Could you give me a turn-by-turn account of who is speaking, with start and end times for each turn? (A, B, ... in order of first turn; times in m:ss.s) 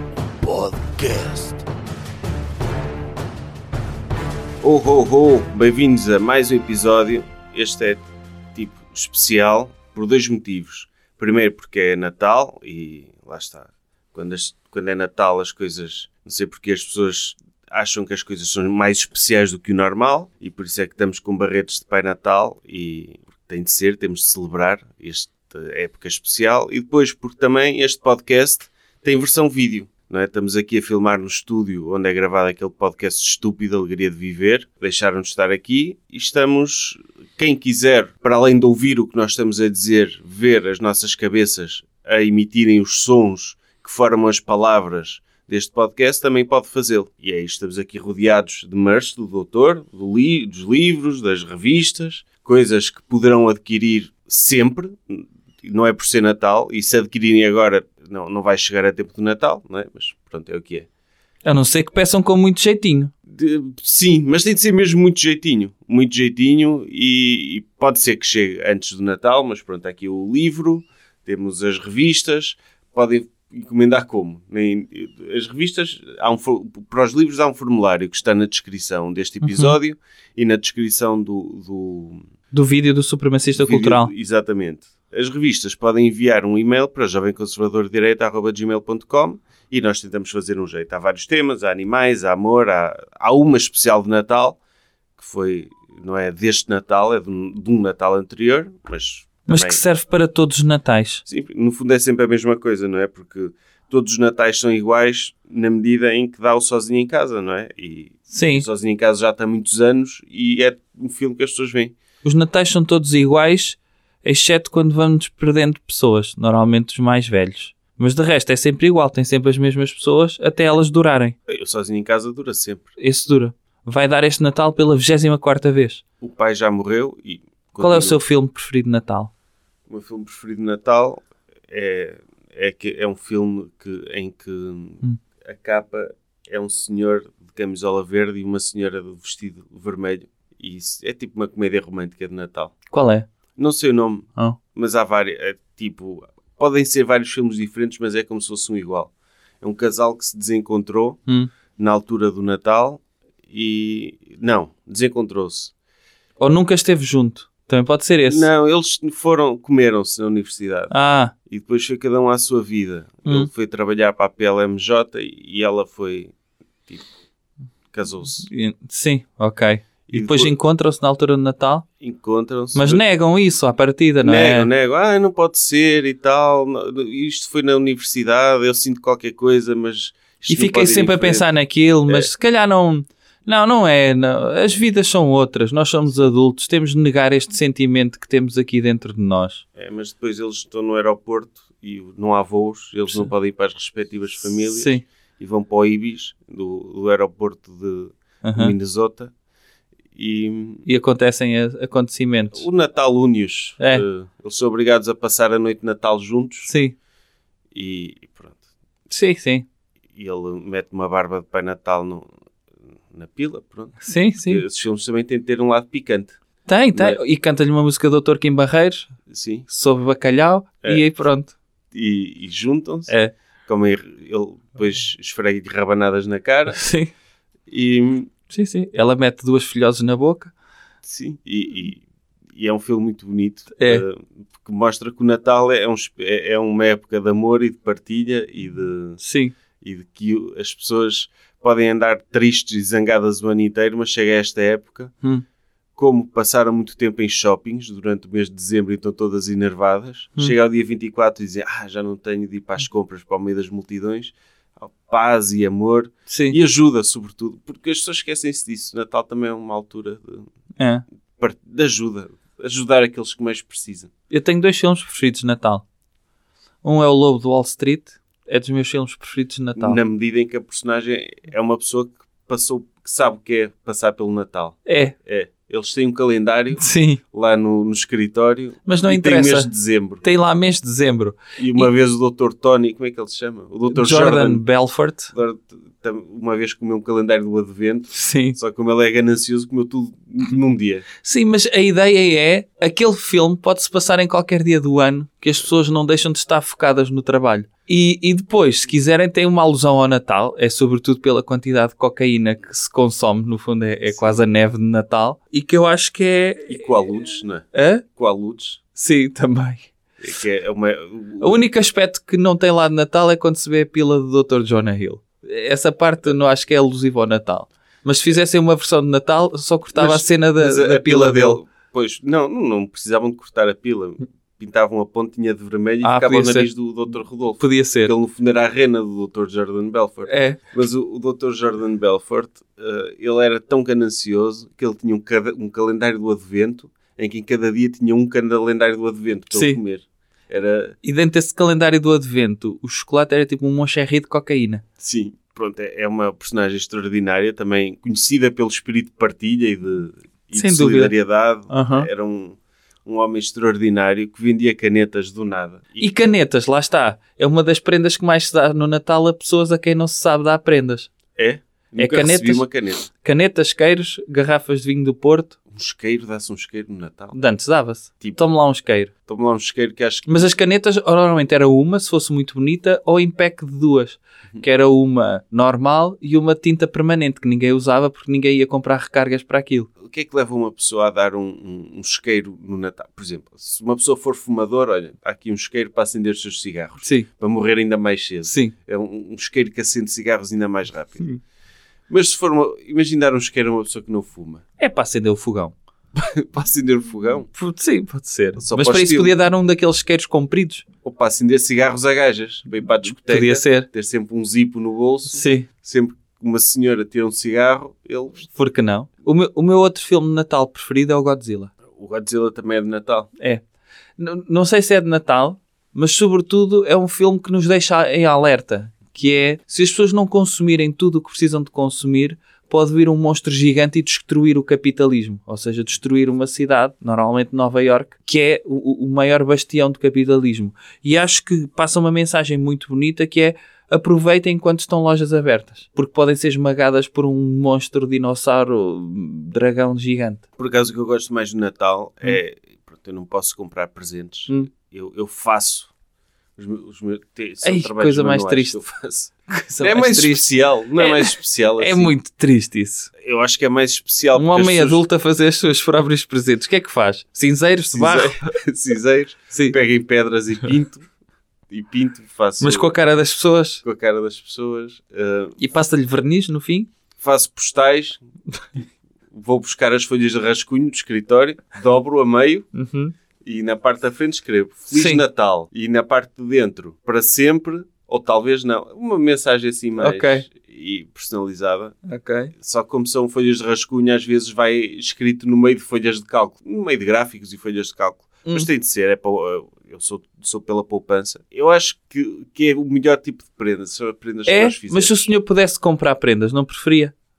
0:00.4-0:01.6 A
0:04.6-1:00.9 A
1:01.4-1:03.1 B
1:03.3-1:22.2 A
1:19.4-1:19.8 B
1:22.5-1:24.1 B
1:23.6-1:34.6 A
1:35.2-1:39.8 A
1:39.5-1:41.2 B
1:41.2-1:52.0 A
1:48.3-1:48.7 B
1:52.2-2:01.4 B
2:01.5-2:02.9 A
2:03.0-2:06.0 B
2:06.2-2:08.2 A
2:07.8-2:09.3 B
2:09.9-2:22.8 A
2:22.9-2:23.3 B
2:23.6-2:31.2 A
2:31.8-2:35.7 A
2:36.4-2:38.5 B
2:38.3-2:40.9 A
2:40.9-2:41.3 B
2:41.5-2:46.3 A
2:47.9-2:48.5 A
2:48.4-2:51.9 B
2:50.1-2:50.5 A
2:52.0-2:53.0 A
2:52.7-2:54.7 B
2:54.2-3:01.5 A
3:00.5-3:09.6 B
3:09.8-3:19.3 A
3:14.7-3:15.1 B
3:18.4-3:18.7 B
3:20.2-3:20.9 A
3:20.9-3:22.7 B
3:22.5-3:26.7 A
3:23.8-3:24.0 B
3:26.7-3:27.0 B
3:27.7-3:28.6 A
3:29.1-3:29.7 B
3:30.2-3:32.3 A
3:33.1-3:36.4 A
3:34.0-3:34.6 B
3:36.7-3:39.1 B
3:39.3-3:39.7 A
3:39.7-3:41.6 B
3:41.9-3:43.1 A
3:43.7-3:46.8 A
3:46.7-3:47.1 B
3:47.7-3:48.3 A
3:48.5-3:50.5 B
3:51.0-3:52.0 A
3:52.5-3:59.2 A
3:53.8-3:54.0 B
3:59.2-3:59.6 B
3:59.8-4:05.1 A
4:06.0-4:20.5 A
4:16.3-4:16.6 B
4:20.8-4:21.0 B
4:21.4-4:24.1 A
4:24.3-4:25.8 B
4:26.8-4:30.0 B
4:29.8-4:40.2 A
4:34.9-4:35.1 B
4:36.8-4:37.2 B
4:38.9-4:39.7 B
4:40.2-4:41.9 B
4:41.6-4:44.6 A
4:43.9-4:45.3 B
4:45.3-4:51.1 A
4:48.1-4:48.6 B
4:51.2-5:08.0 B
5:04.1-5:04.4 A
5:06.7-5:08.8 A
5:09.0-5:09.9 B
5:10.2-5:11.6 A
5:11.4-5:21.6 B
5:20.0-5:41.0 A
5:26.0-5:26.7 B
5:27.6-5:28.1 B
5:30.3-5:30.6 B
5:39.5-5:39.8 B
5:41.0-5:44.8 B
5:45.0-5:56.1 A
5:50.6-5:51.1 B
5:51.7-5:52.1 B
5:56.0-6:01.1 B
6:01.4-6:03.1 A
6:02.0-6:02.7 B
6:03.2-6:05.6 B
6:05.7-6:07.4 A
6:07.3-6:09.1 B
6:09.3-6:10.5 A
6:10.3-6:19.9 B
6:20.0-6:31.3 A
6:27.0-6:27.3 B
6:28.5-6:28.7 B
6:32.1-6:34.6 A
6:34.8-6:35.8 B
6:36.1-6:37.5 A
6:37.5-6:40.8 B
6:38.6-6:39.4 A
6:41.0-6:48.5 A
6:43.1-6:43.9 B
6:45.3-6:45.7 B
6:48.5-6:51.7 B
6:51.9-6:53.3 A
6:54.2-7:20.4 B
7:20.6-7:25.9 A
7:26.6-7:32.1 A
7:27.6-7:28.8 B
7:29.5-7:33.1 B
7:33.2-7:35.0 A
7:34.4-7:38.4 B
7:37.9-7:41.1 A
7:41.7-7:42.9 A
7:42.6-7:43.8 B
7:43.8-7:45.6 A
7:45.6-7:46.9 B
7:47.2-7:48.2 A
7:49.3-7:52.7 A
7:52.7-7:53.1 B
7:53.4-8:02.0 A
7:54.9-7:55.2 B
8:00.0-8:00.4 B
8:02.0-8:02.5 B
8:02.6-8:15.3 A
8:14.5-8:17.1 B